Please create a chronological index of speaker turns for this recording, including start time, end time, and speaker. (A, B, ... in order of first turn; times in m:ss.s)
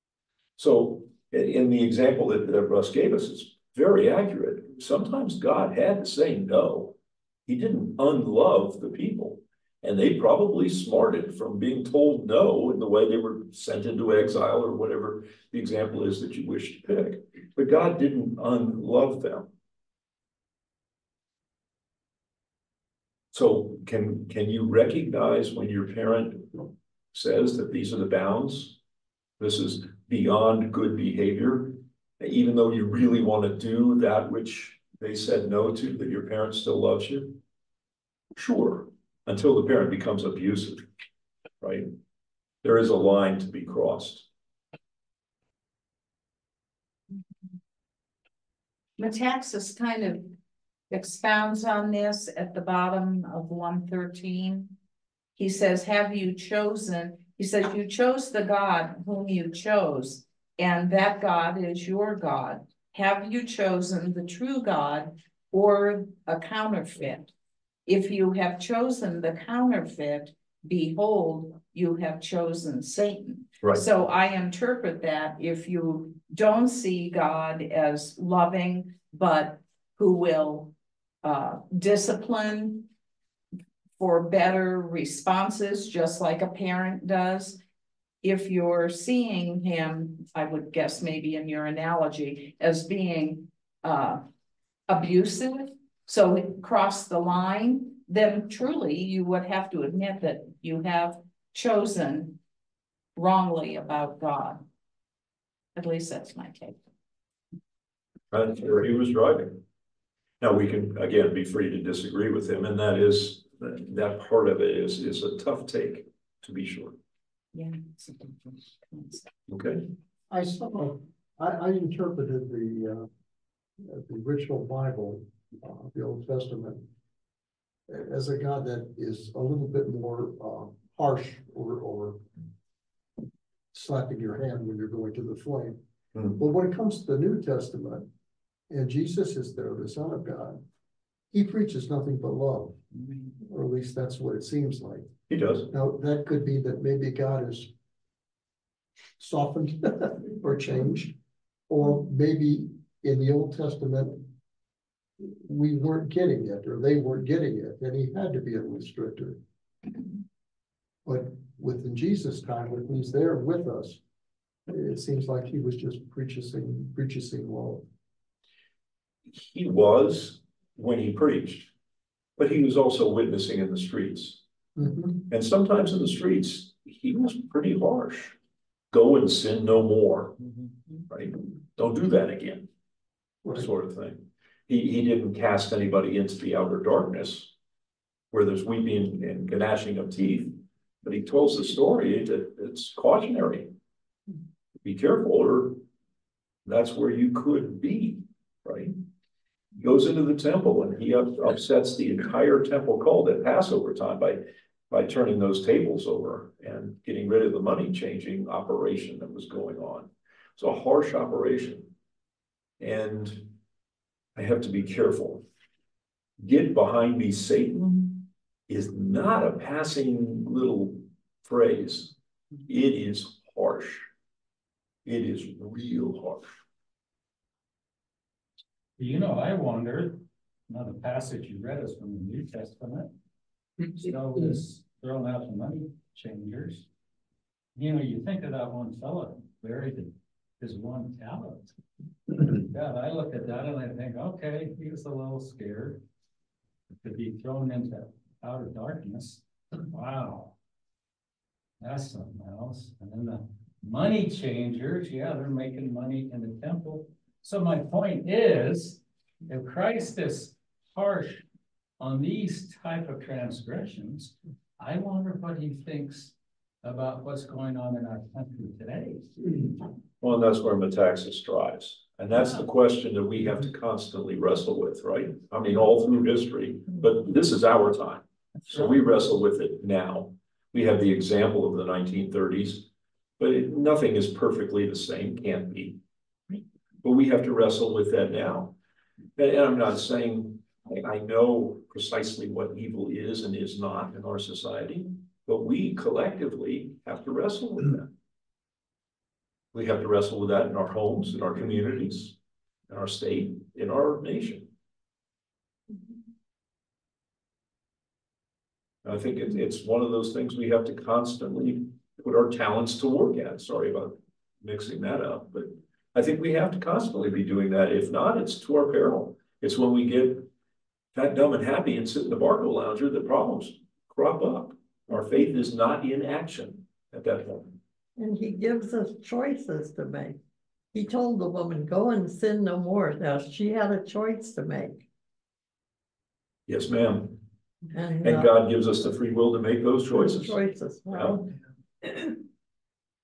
0:00.6-0:19.5 A
0:23.3-0:28.8 A
0:29.4-0:37.4 A
0:38.3-0:40.8 A
0:41.6-0:41.9 A
0:42.6-0:44.3 A
0:49.0-0:50.3 B
0:50.9-0:54.7 B
0:55.4-1:07.3 B
1:07.8-1:20.7 B
1:21.2-1:22.9 B
1:24.0-1:27.6 B
1:28.2-1:34.2 B
1:34.9-1:42.4 B
1:43.2-1:44.6 B
1:45.7-1:46.8 B
1:48.3-1:49.6 A
1:50.4-1:57.0 A
1:57.5-1:59.3 B
1:59.5-1:59.8 A
2:00.3-2:03.1 C
2:03.8-2:06.9 C
2:07.9-2:12.2 C
2:13.7-2:15.8 C
2:16.3-2:18.1 C
2:18.7-2:20.6 C
2:21.3-2:25.1 C
2:25.3-2:25.7 A
2:25.7-2:27.7 C
2:29.2-2:31.2 C
2:31.7-2:34.3 C
2:35.2-2:39.4 C
2:41.0-2:44.0 C
2:44.7-2:47.8 C
2:49.3-2:51.7 A
2:52.4-2:54.4 A
2:54.8-2:55.2 C
2:55.2-2:58.4 A
2:58.9-3:00.4 A
3:01.1-3:02.7 A
3:03.4-3:03.7 C
3:03.5-3:07.5 A
3:08.3-3:13.7 A
3:14.8-3:15.8 A
3:16.6-3:18.9 A
3:19.8-3:31.9 A
3:32.8-3:33.6 A
3:34.3-3:35.4 A
3:36.4-3:42.1 A
3:42.7-3:44.1 A
3:45.0-3:46.5 A
3:49.0-3:53.1 D
3:53.9-3:56.8 D
3:57.7-4:01.8 D
4:02.3-4:06.0 D
4:06.9-4:10.6 D
4:11.8-4:21.4 D
4:22.0-4:29.3 D
4:30.2-4:42.9 A
4:43.4-4:46.0 A
4:47.0-4:48.7 A
4:49.4-4:58.1 A
4:59.7-5:02.4 A
5:02.9-5:04.7 A
5:09.0-5:20.5 A
5:21.1-5:27.8 A
5:28.2-5:30.4 E
5:30.9-5:35.0 E
5:36.7-5:37.4 A
5:37.9-5:38.5 E
5:38.2-5:41.5 A
5:40.1-5:41.5 E